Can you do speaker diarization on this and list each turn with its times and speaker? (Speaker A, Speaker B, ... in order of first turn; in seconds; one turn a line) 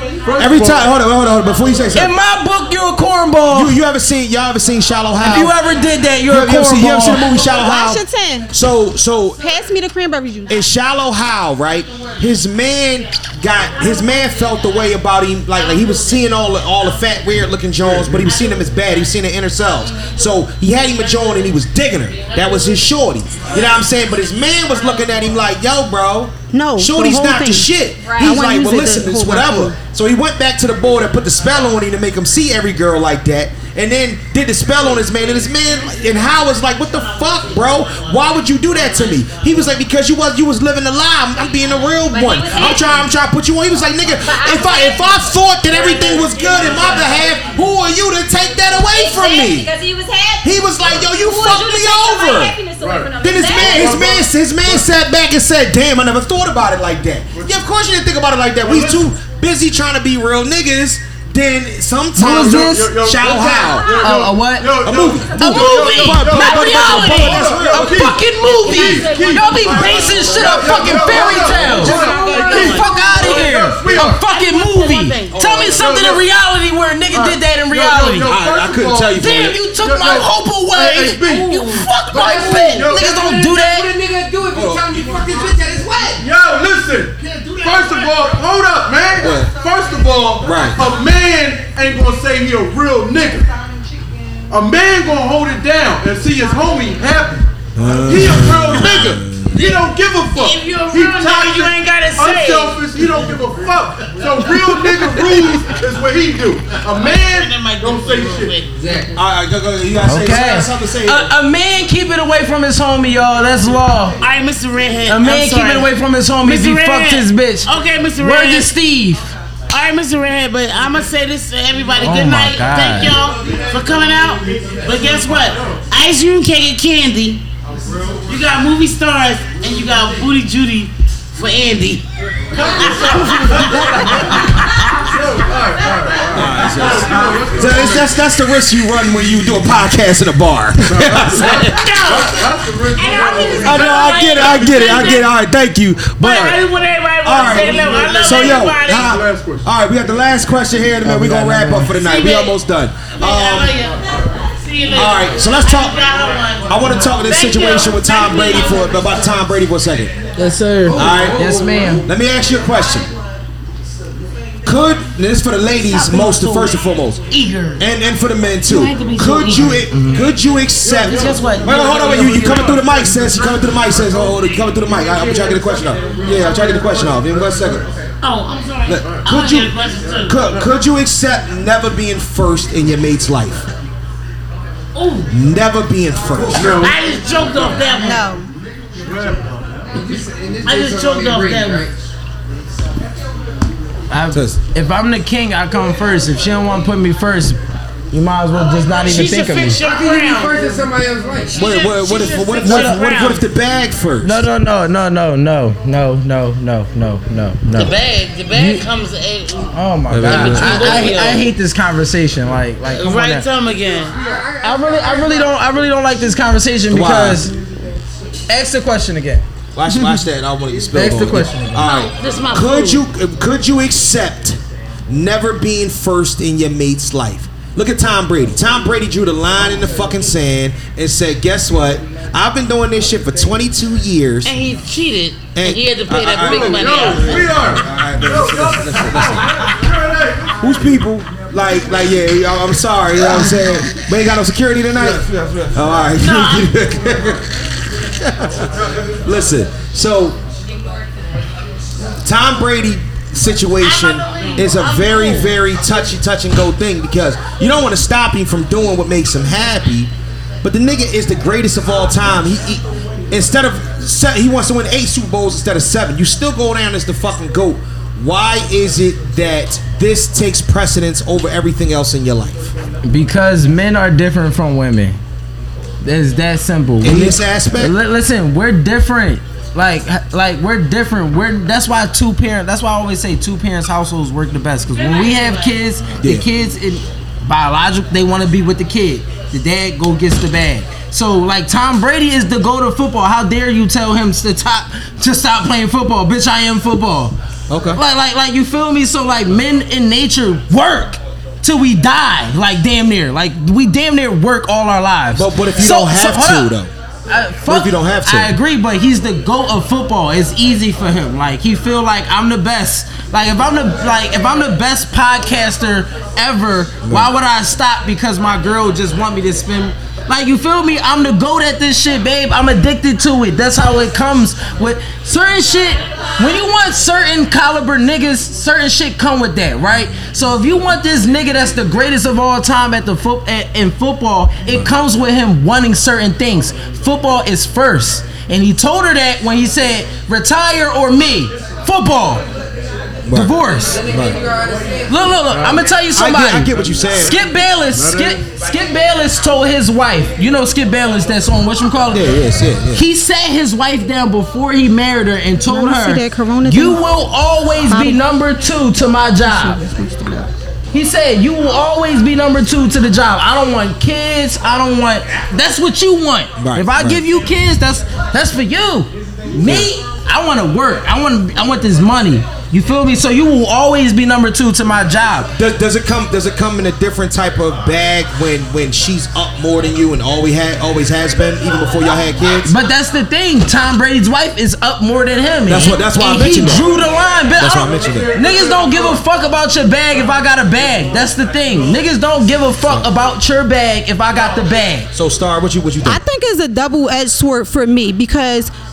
Speaker A: 0.2-0.9
Speaker B: 0.4-2.1
Speaker C: 1.9-3.8
Speaker B: 3.5-5.5
Speaker C: 5.2-7.3
Speaker B: 6.3-8.0
Speaker D: 7.3-8.5
Speaker B: 8.5-9.4
Speaker D: 9.4-10.6
Speaker B: 10.5-49.7
Speaker D: 26.5-29.8
Speaker E: 28.0-28.4
Speaker E: 42.1-43.0
Speaker E: 44.2-45.3
Speaker A: 46.4-47.1
Speaker E: 48.9-54.1
Speaker B: 50.4-52.6
Speaker A: 52.8-54.9
Speaker B: 53.2-63.9
Speaker A: 57.3-57.6
Speaker A: 58.6-59.1
Speaker C: 62.2-63.0
Speaker A: 62.2-74.2
Speaker E: 63.4-64.2
Speaker C: 63.8-78.3
Speaker B: 64.8-68.1
Speaker E: 65.1-65.8
Speaker F: 68.4-76.0
Speaker E: 71.9-72.4
Speaker B: 75.3-75.7
Speaker A: 75.7-76.3
Speaker A: 77.2-81.8
Speaker B: 78.2-79.6
Speaker C: 79.2-83.9
Speaker F: 81.3-81.8
Speaker G: 82.0-86.3
Speaker A: 82.6-83.2
Speaker B: 84.5-85.0
Speaker A: 86.2-93.5
Speaker B: 89.2-89.5
Speaker B: 90.4-90.8
Speaker A: 94.5-97.5
Speaker B: 97.8-99.5
Speaker A: 98.0-108.6
Speaker F: 98.7-102.9
Speaker F: 104.6-105.4
Speaker F: 106.8-108.7
Speaker G: 108.7-109.2
Speaker B: 109.2-111.3
Speaker C: 110.0-114.2
Speaker F: 114.2-115.9
Speaker C: 115.1-119.3
Speaker F: 116.4-118.7
Speaker F: 119.7-127.4
Speaker C: 122.0-123.1
Speaker A: 125.2-125.8
Speaker F: 128.3-135.1
Speaker A: 132.5-134.4
Speaker A: 135.1-138.2
Speaker B: 136.3-141.8
Speaker A: 140.9-145.1
Speaker F: 141.3-145.3
Speaker B: 143.6-146.6
Speaker F: 146.2-149.2
Speaker B: 147.2-153.8
Speaker A: 147.4-149.7
Speaker C: 151.0-151.9
Speaker F: 152.0-152.6
Speaker F: 153.2-159.2
Speaker B: 154.9-156.0
Speaker B: 156.7-160.1
Speaker C: 160.4-162.0
Speaker B: 160.9-161.4
Speaker B: 162.0-163.1
Speaker B: 164.7-167.2
Speaker F: 165.8-166.8
Speaker F: 167.3-167.8
Speaker B: 167.8-177.8
Speaker F: 168.7-170.0
Speaker C: 169.9-170.2
Speaker A: 170.8-177.8
Speaker F: 171.0-172.8
Speaker C: 171.1-172.2
Speaker F: 178.2-180.6
Speaker B: 178.9-179.8
Speaker A: 179.0-179.3
Speaker A: 180.1-180.8
Speaker B: 180.3-183.7
Speaker F: 184.9-185.3
Speaker B: 185.3-186.9
Speaker A: 186.5-187.8
Speaker F: 186.5-188.2
Speaker D: 187.9-188.5
Speaker A: 189.0-189.6
Speaker G: 189.9-191.9
Speaker F: 190.6-191.9
Speaker C: 194.1-197.6
Speaker B: 194.3-194.6
Speaker C: 198.1-199.8
Speaker F: 199.0-200.6
Speaker G: 199.8-201.6
Speaker F: 201.5-203.5
Speaker B: 201.5-204.5
Speaker C: 202.6-203.0
Speaker C: 204.2-208.0
Speaker F: 207.7-211.5
Speaker C: 208.5-208.9
Speaker C: 209.7-213.5
Speaker B: 210.1-211.1
Speaker F: 212.9-214.1
Speaker G: 214.1-215.6
Speaker C: 214.6-217.5
Speaker B: 216.9-217.5
Speaker C: 218.5-219.4
Speaker B: 219.8-234.6
Speaker C: 220.9-221.9
Speaker F: 221.8-223.0
Speaker F: 234.4-237.5
Speaker B: 235.6-239.7
Speaker A: 236.3-240.7
Speaker B: 240.6-247.6
Speaker F: 246.2-246.7
Speaker B: 248.2-250.4
Speaker B: 252.2-260.1
Speaker F: 253.8-255.7
Speaker B: 260.6-272.7
Speaker C: 273.1-275.2
Speaker C: 276.0-297.4
Speaker B: 277.0-277.9
Speaker F: 284.9-285.8
Speaker B: 286.2-286.5
Speaker B: 297.7-298.0
Speaker C: 297.9-306.7
Speaker B: 305.4-306.9
Speaker C: 307.3-342.4
Speaker B: 307.7-308.6
Speaker B: 317.0-317.3
Speaker B: 343.3-343.6
Speaker C: 343.3-344.0
Speaker G: 343.7-345.4
Speaker B: 344.1-344.4
Speaker C: 345.1-352.3
Speaker A: 345.4-345.9
Speaker B: 346.1-347.4
Speaker A: 346.7-347.3
Speaker A: 347.9-348.4
Speaker B: 352.1-353.1
Speaker C: 352.9-359.8
Speaker D: 355.6-357.1
Speaker D: 357.9-358.2
Speaker D: 359.4-360.5
Speaker C: 360.9-375.5
Speaker B: 366.6-367.2
Speaker B: 369.6-369.9
Speaker B: 375.6-382.7
Speaker C: 382.7-395.1
Speaker B: 385.7-386.9
Speaker B: 387.6-388.3
Speaker A: 387.6-389.2
Speaker B: 395.1-396.2
Speaker D: 396.1-398.7